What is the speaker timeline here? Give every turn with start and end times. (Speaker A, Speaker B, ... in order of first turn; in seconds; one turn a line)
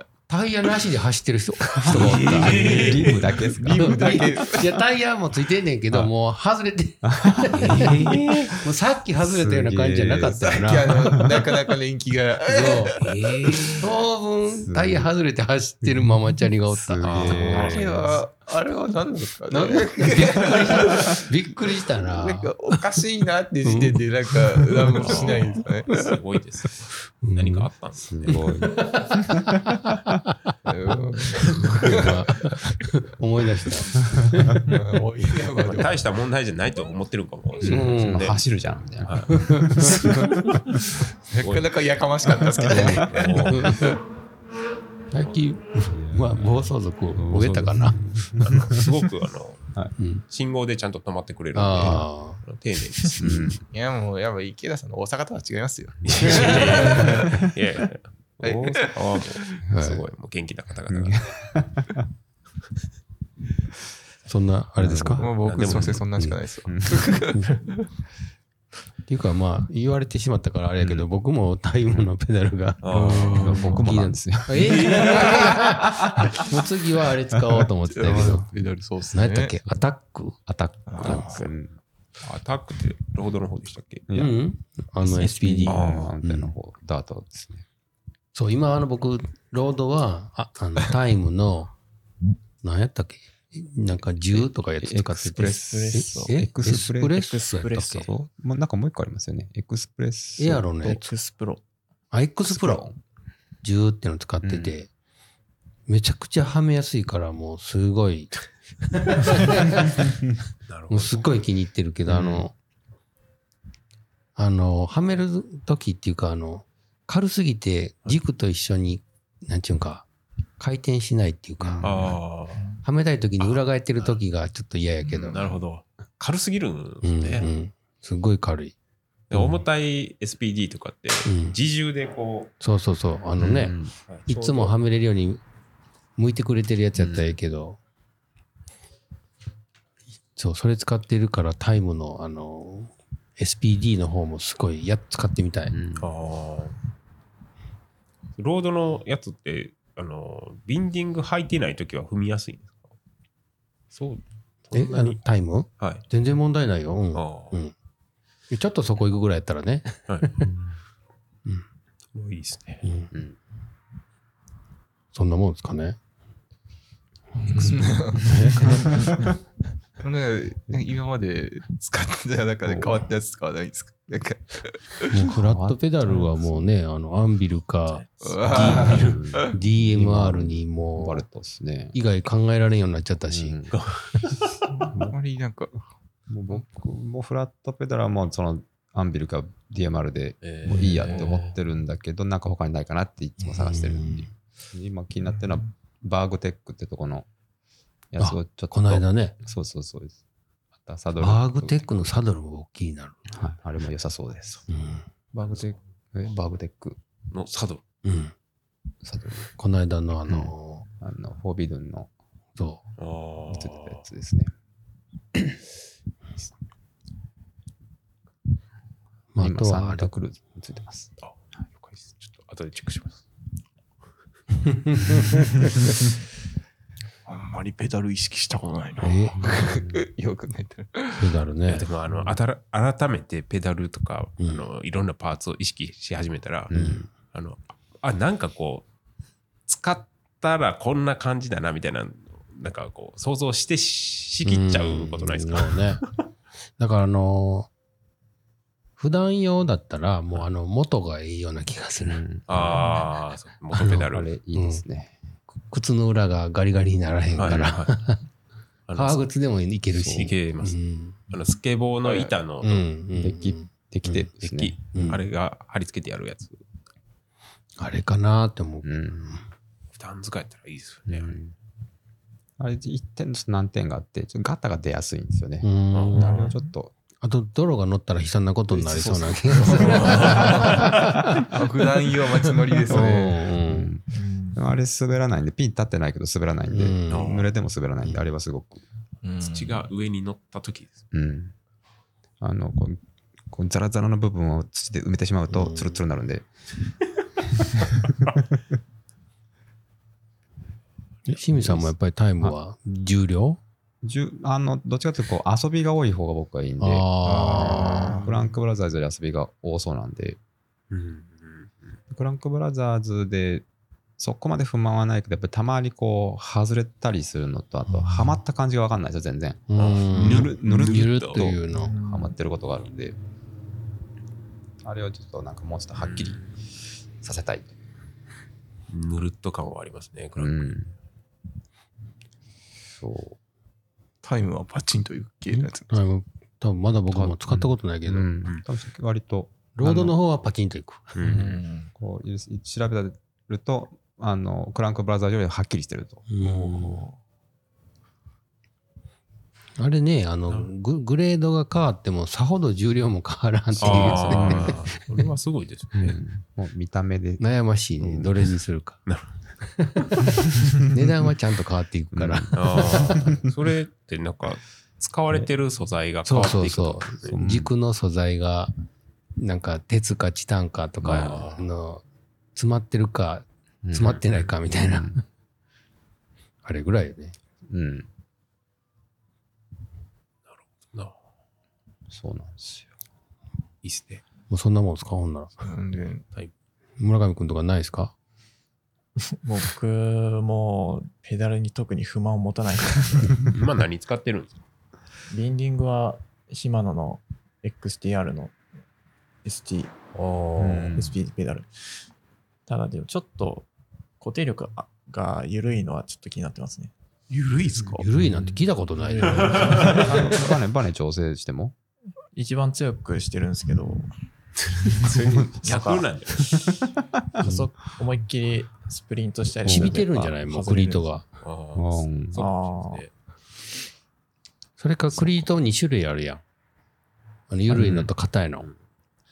Speaker A: 0.3-11.2
Speaker B: 1.8-4.3
Speaker C: 1.9-3.3
Speaker D: 2.0-2.9
Speaker D: 3.4-4.8
Speaker B: 7.0-8.7
Speaker C: 7.5-8.4
Speaker B: 9.2-11.4
Speaker D: 10.4-13.8
Speaker A: 12.5-13.0
Speaker C: 12.9-13.8
Speaker A: 13.8-17.9
Speaker B: 14.6-15.1
Speaker B: 15.8-17.9
Speaker C: 17.0-18.2
Speaker D: 17.5-26.2
Speaker A: 19.5-22.5
Speaker A: 23.6-25.2
Speaker C: 25.0-28.4
Speaker A: 27.2-27.7
Speaker B: 28.0-30.1
Speaker A: 28.3-30.5
Speaker D: 30.7-32.5
Speaker A: 31.7-34.6
Speaker D: 34.6-36.0
Speaker C: 35.6-38.4
Speaker B: 37.6-40.6
Speaker A: 37.6-38.3
Speaker C: 39.0-41.7
Speaker A: 39.3-39.9
Speaker D: 41.3-44.0
Speaker A: 42.7-44.0
Speaker C: 43.0-43.9
Speaker A: 45.1-48.0
Speaker B: 45.9-48.8
Speaker C: 48.4-49.6
Speaker A: 50.0-50.2
Speaker C: 50.3-53.5
Speaker A: 51.5-52.4
Speaker B: 53.2-53.6
Speaker D: 53.7-57.5
Speaker C: 56.0-61.3
Speaker A: 56.2-57.2
Speaker D: 58.4-59.4
Speaker A: 59.7-60.0
Speaker B: 60.9-62.0
Speaker A: 64.3-65.2
Speaker B: 64.8-66.0
Speaker D: 65.2-67.7
Speaker C: 65.4-66.0
Speaker B: 66.7-67.2
Speaker A: 69.1-78.5
Speaker B: 70.8-71.0
Speaker C: 72.8-73.8
Speaker D: 72.9-73.8
Speaker B: 73.3-76.3
Speaker C: 74.6-75.7
Speaker D: 77.9-79.5
Speaker B: 78.0-78.5
Speaker A: 79.1-80.4
Speaker B: 80.5-81.7
Speaker D: 80.9-81.5
Speaker C: 82.2-84.0
Speaker B: 84.1-84.3
Speaker A: 84.1-85.8
Speaker B: 85.0-87.6
Speaker C: 85.7-86.1
Speaker A: 88.3-91.7
Speaker A: 92.6-98.1
Speaker B: 94.3-100.9
Speaker E: 95.3-96.4
Speaker E: 97.4-98.1
Speaker A: 100.4-101.1
Speaker E: 100.8-101.6
Speaker A: 102.1-102.8
Speaker B: 102.5-103.0
Speaker A: 103.6-104.9
Speaker B: 104.4-104.8
Speaker A: 105.9-108.3
Speaker A: 108.9-109.9
Speaker C: 110.7-111.3
Speaker A: 110.9-112.5
Speaker B: 112.1-112.5
Speaker A: 114.3-120.0
Speaker A: 120.6-121.9
Speaker B: 121.6-122.2
Speaker C: 121.8-122.6
Speaker A: 122.8-125.4
Speaker C: 125.1-127.5
Speaker A: 127.0-128.7
Speaker C: 129.3-132.5
Speaker A: 131.2-131.6
Speaker A: 132.6-133.8
Speaker B: 133.4-133.9
Speaker C: 134.1-134.7
Speaker A: 134.3-135.4
Speaker A: 136.2-137.8
Speaker B: 136.9-137.4
Speaker A: 140.3-145.7
Speaker B: 145.7-146.1
Speaker C: 146.0-146.8
Speaker C: 148.4-152.9
Speaker C: 153.9-155.2
Speaker A: 154.7-157.7
Speaker C: 155.8-156.0
Speaker C: 157.1-157.5
Speaker A: 158.5-160.5
Speaker B: 160.4-160.8
Speaker C: 162.1-162.8
Speaker A: 162.8-163.1
Speaker B: 163.1-163.4
Speaker A: 165.1-166.0
Speaker A: 167.4-168.9
Speaker D: 167.5-169.0
Speaker E: 168.8-169.2
Speaker D: 170.0-175.1
Speaker B: 172.6-173.0
Speaker A: 175.1-181.2
Speaker B: 175.3-176.6
Speaker D: 178.2-179.5
Speaker C: 178.5-179.2
Speaker B: 178.6-181.9
Speaker A: 181.9-183.6
Speaker B: 183.3-183.8
Speaker C: 183.7-184.3
Speaker D: 184.7-185.8
Speaker B: 184.9-185.2
Speaker B: 186.3-197.3
Speaker C: 190.4-191.6
Speaker A: 193.4-194.3
Speaker B: 198.1-200.2
Speaker A: 198.2-199.3
Speaker B: 200.8-202.1
Speaker A: 201.2-203.2
Speaker B: 203.3-204.6
Speaker A: 204.7-205.1
Speaker B: 205.3-207.0
Speaker C: 205.5-205.7
Speaker C: 207.3-207.8
Speaker A: 208.0-208.3
Speaker B: 209.0-209.5
Speaker A: 209.6-210.8
Speaker B: 210.3-212.1
Speaker C: 213.0-214.0
Speaker B: 213.5-214.5
Speaker A: 219.3-220.1
Speaker B: 219.4-221.1
Speaker C: 221.2-223.2
Speaker A: 224.7-225.5
Speaker D: 227.2-231.3
Speaker A: 229.0-229.6
Speaker B: 229.4-230.0
Speaker A: 231.2-231.9
Speaker C: 231.7-238.9
Speaker A: 234.4-234.6
Speaker B: 236.7-237.1
Speaker A: 236.7-237.0
Speaker C: 239.7-246.1
Speaker A: 244.4-246.0
Speaker A: 246.8-247.7
Speaker A: 249.0-252.2
Speaker B: 252.0-252.9
Speaker C: 252.5-254.3
Speaker A: 253.8-254.8
Speaker B: 254.1-255.1
Speaker A: 255.5-258.2
Speaker B: 257.4-257.8
Speaker C: 257.4-257.9
Speaker C: 258.9-259.2
Speaker A: 258.9-261.2
Speaker B: 259.9-260.3
Speaker C: 260.1-260.8
Speaker C: 261.3-262.8
Speaker A: 262.6-264.3
Speaker B: 263.1-265.1
Speaker C: 264.4-266.6
Speaker A: 264.9-265.2
Speaker A: 267.8-269.4
Speaker B: 268.8-269.4
Speaker C: 269.9-271.3
Speaker B: 271.1-271.5
Speaker B: 272.6-276.9
Speaker A: 275.6-276.3
Speaker C: 275.9-276.5
Speaker E: 276.3-276.6
Speaker A: 277.2-281.5
Speaker C: 279.3-280.8
Speaker D: 279.5-280.9
Speaker D: 281.5-283.4
Speaker A: 282.9-283.9
Speaker B: 283.6-288.8
Speaker E: 284.1-284.6
Speaker A: 286.7-287.4
Speaker C: 287.1-287.5
Speaker D: 289.2-289.8
Speaker C: 289.4-291.0
Speaker B: 291.1-291.5
Speaker B: 292.4-296.5
Speaker A: 295.5-296.0
Speaker A: 301.3-303.6
Speaker B: 301.5-302.6
Speaker B: 304.0-310.4
Speaker A: 306.8-308.2
Speaker D: 307.2-308.3
Speaker C: 310.9-311.9
Speaker B: 312.1-313.6
Speaker B: 314.2-323.2
Speaker A: 319.7-321.9
Speaker C: 319.8-321.5
Speaker E: 321.7-322.3
Speaker B: 324.8-326.5
Speaker C: 326.0-326.5
Speaker B: 327.2-327.7
Speaker C: 328.9-330.8
Speaker B: 330.4-330.9
Speaker B: 332.9-333.4
Speaker D: 334.2-336.0
Speaker A: 335.5-338.3
Speaker B: 337.1-340.1
Speaker A: 339.8-341.1
Speaker C: 341.1-341.6
Speaker B: 341.2-346.2
Speaker D: 341.2-341.9
Speaker A: 346.3-347.0
Speaker C: 346.4-346.7
Speaker D: 346.7-347.1
Speaker A: 349.8-355.0
Speaker B: 353.7-354.9
Speaker C: 353.8-356.2
Speaker B: 355.9-357.4
Speaker A: 357.4-359.0
Speaker B: 358.0-358.4
Speaker A: 359.6-363.2
Speaker B: 362.1-363.4
Speaker C: 362.5-367.3
Speaker A: 366.2-368.7
Speaker B: 367.2-367.7
Speaker A: 369.4-372.0
Speaker C: 371.0-371.7
Speaker A: 372.5-375.2
Speaker B: 373.8-375.2
Speaker A: 376.6-377.4
Speaker B: 377.7-378.1
Speaker C: 380.8-381.1
Speaker B: 382.1-382.9
Speaker C: 383.8-384.2
Speaker A: 384.5-385.6
Speaker D: 385.6-386.2
Speaker A: 387.0-388.1
Speaker E: 389.4-393.5
Speaker C: 393.4-394.6
Speaker E: 395.3-398.6
Speaker E: 399.4-399.9
Speaker C: 400.1-400.9
Speaker B: 400.6-401.2
Speaker E: 400.9-401.7
Speaker E: 402.7-403.7
Speaker E: 404.2-406.9
Speaker D: 407.3-408.1
Speaker E: 407.8-408.1
Speaker A: 408.0-410.2
Speaker E: 409.1-410.0
Speaker C: 409.2-410.1
Speaker B: 409.8-411.7
Speaker E: 412.3-414.1
Speaker C: 414.6-416.7
Speaker B: 415.1-415.6
Speaker E: 415.6-416.1
Speaker B: 416.4-417.6
Speaker E: 417.4-421.1
Speaker B: 419.6-420.4
Speaker A: 419.6-421.2
Speaker C: 421.4-423.1
Speaker B: 421.7-422.4
Speaker E: 422.4-423.0
Speaker A: 424.8-426.4
Speaker C: 425.1-425.5
Speaker A: 427.5-428.7
Speaker B: 427.7-428.1